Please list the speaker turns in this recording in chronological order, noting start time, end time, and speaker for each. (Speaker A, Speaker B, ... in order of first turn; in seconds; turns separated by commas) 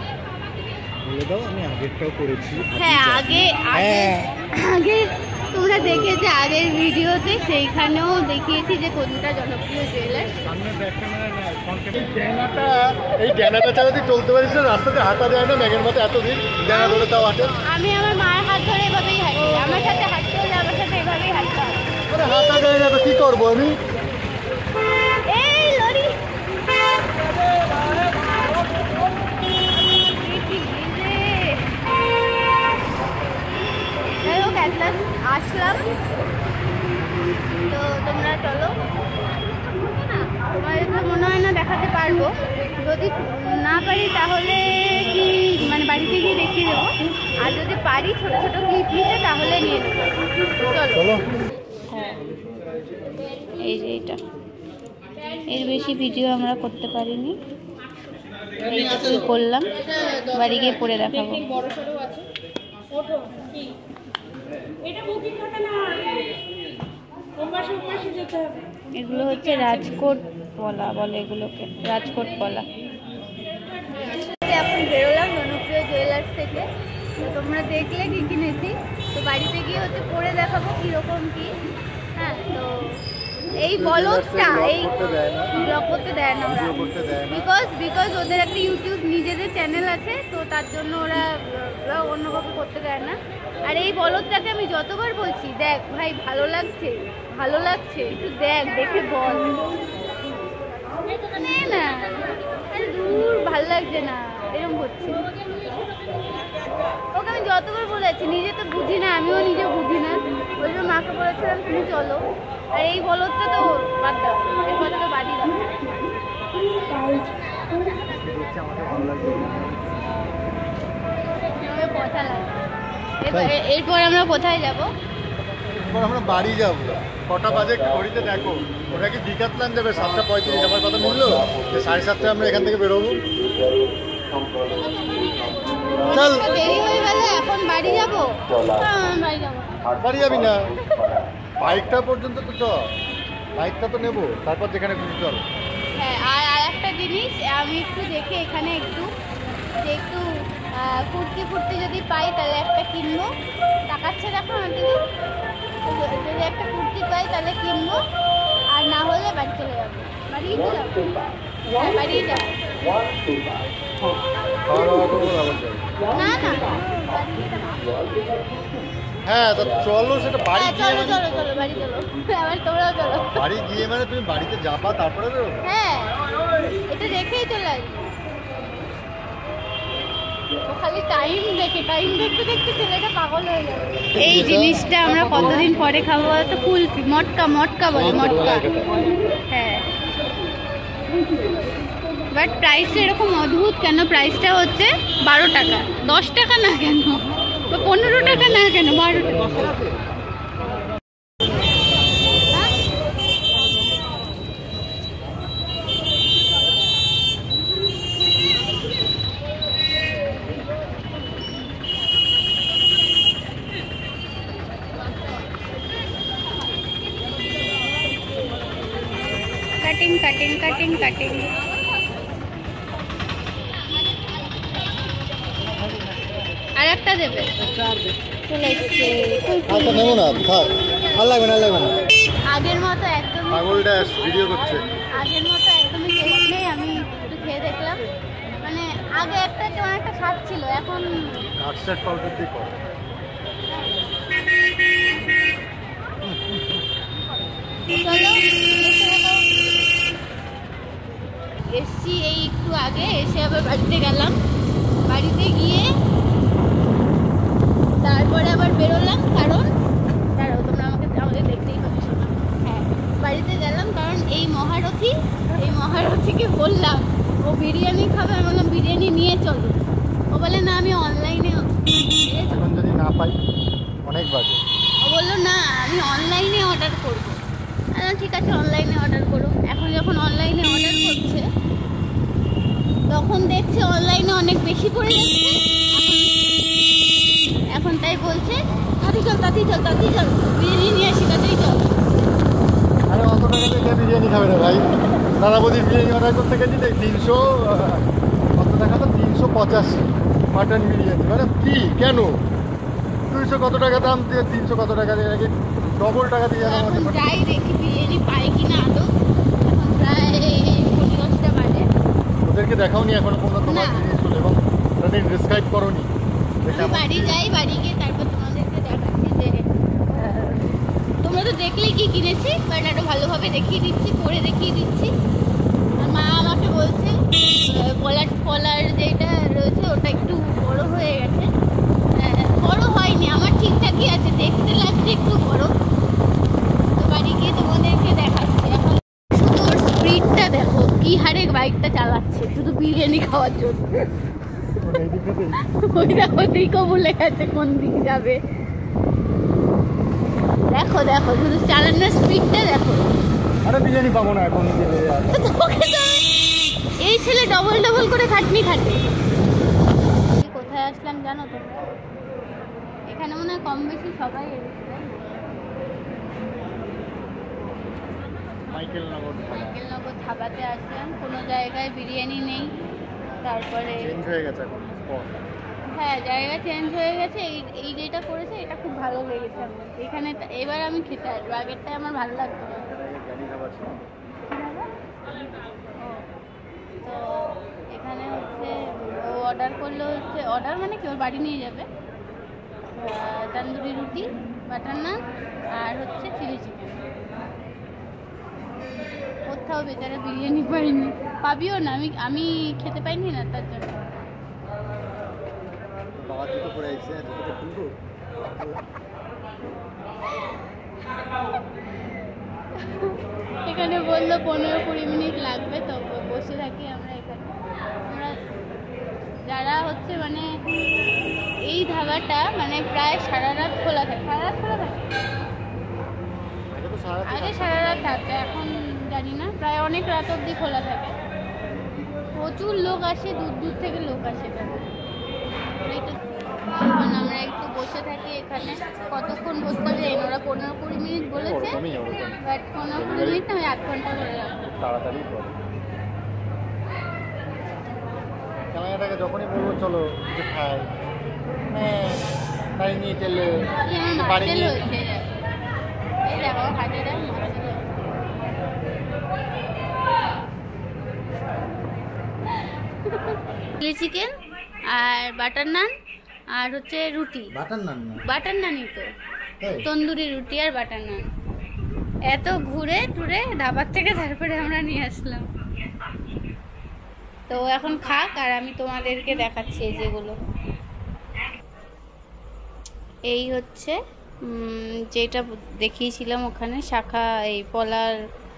Speaker A: 1.0-4.3, Speaker B: 2.8-10.3, Speaker A: 10.4-17.6, Speaker B: 16.7-22.6, Speaker A: 22.1-23.8, Speaker B: 25.2-26.1, Speaker B: 29.9-31.7, Speaker B: 34.2-35.9, Speaker B: 37.7-38.8, Speaker B: 40.6-51.1, Speaker A: 50.9-51.2, Speaker B: 51.9-52.2, Speaker B: 53.6-54.2, Speaker B: 55.5-57.3, Speaker B: 58.6-61.5, Speaker B: 68.9-72.7, Speaker B: 73.9-81.5, Speaker B: 82.2-83.0, Speaker B: 83.5-84.9, Speaker A: 83.6-85.5, Speaker B: 85.5-86.8, Speaker A: 86.5-87.5, Speaker B: 87.3-99.5, Speaker B: 101.2-105.2, Speaker B: 107.1-115.9, Speaker A: 118.0-119.7, Speaker B: 121.5-122.6, Speaker B: 123.2-124.9, Speaker A: 123.3-123.5, Speaker A: 125.7-133.2, Speaker B: 134.9-139.8, Speaker A: 136.1-136.6, Speaker A: 140.0-140.7, Speaker B: 140.8-141.2, Speaker A: 141.6-142.8, Speaker A: 143.6-145.4, Speaker B: 145.9-149.1, Speaker B: 149.8-153.3, Speaker B: 153.9-155.0, Speaker B: 155.8-158.0, Speaker B: 158.7-161.1, Speaker B: 161.7-162.6, Speaker A: 164.7-165.9, Speaker B: 166.1-168.4, Speaker A: 169.2-171.5, Speaker B: 170.5-173.4, Speaker A: 173.3-175.6, Speaker B: 175.6-176.1, Speaker B: 176.9-178.1, Speaker B: 180.6-188.7, Speaker A: 184.1-184.9, Speaker A: 187.9-189.1, Speaker B: 189.5-189.8, Speaker B: 192.3-199.7, Speaker A: 197.8-199.9, Speaker B: 219.8-221.5, Speaker B: 226.8-227.5, Speaker B: 228.5-230.2, Speaker A: 229.7-232.0, Speaker B: 232.5-233.8, Speaker A: 233.5-234.8, Speaker B: 235.2-238.0, Speaker B: 238.6-241.1, Speaker A: 241.6-242.7, Speaker A: 246.2-246.8, Speaker B: 247.9-249.4, Speaker B: 251.7-254.3, Speaker B: 255.0-255.9, Speaker B: 258.0-259.7, Speaker B: 260.3-272.7, Speaker A: 272.4-273.4, Speaker A: 274.0-274.6, Speaker B: 275.0-277.4, Speaker B: 277.9-281.4, Speaker B: 283.1-286.3, Speaker B: 287.7-291.9, Speaker A: 293.1-302.4, Speaker A: 303.3-307.4, Speaker B: 306.6-309.1, Speaker B: 309.6-311.9, Speaker A: 312.4-316.1, Speaker B: 313.6-314.1, Speaker A: 316.6-317.4, Speaker B: 316.7-325.1, Speaker B: 326.0-331.5, Speaker B: 332.1-335.7, Speaker B: 337.0-344.1, Speaker A: 344.8-345.7, Speaker B: 345.6-348.4, Speaker B: 350.7-353.1, Speaker A: 353.6-355.4, Speaker B: 355.3-356.3, Speaker B: 357.0-359.0, Speaker B: 360.3-361.9, Speaker B: 363.1-365.3, Speaker A: 368.7-369.8, Speaker B: 369.5-372.7, Speaker B: 373.4-374.1, Speaker A: 374.0-375.5, Speaker B: 375.9-382.8, Speaker A: 382.8-384.1, Speaker B: 384.5-384.9, Speaker B: 386.0-386.2, Speaker B: 387.0-391.9, Speaker B: 392.9-395.2, Speaker B: 395.7-397.0, Speaker B: 399.4-404.1, Speaker A: 406.1-408.8, Speaker B: 412.8-418.3, Speaker B: 419.5-420.5, Speaker B: 421.6-425.1, Speaker A: 426.7-428.2, Speaker B: 427.3-431.1, Speaker B: 432.3-434.8, Speaker B: 435.8-436.2, Speaker B: 436.7-441.8, Speaker A: 441.4-442.4, Speaker B: 442.4-444.6, Speaker A: 442.9-443.4, Speaker A: 444.6-445.6, Speaker A: 448.7-450.9, Speaker A: 451.7-452.2, Speaker A: 452.8-454.8, Speaker B: 453.8-455.3, Speaker B: 456.2-458.0, Speaker B: 463.0-464.3, Speaker B: 464.9-465.9, Speaker B: 466.5-467.5, Speaker A: 467.5-468.2, Speaker B: 468.2-469.1, Speaker A: 469.6-469.9, Speaker B: 469.8-471.2, Speaker B: 472.3-475.4, Speaker B: 477.5-480.4, Speaker B: 483.3-488.1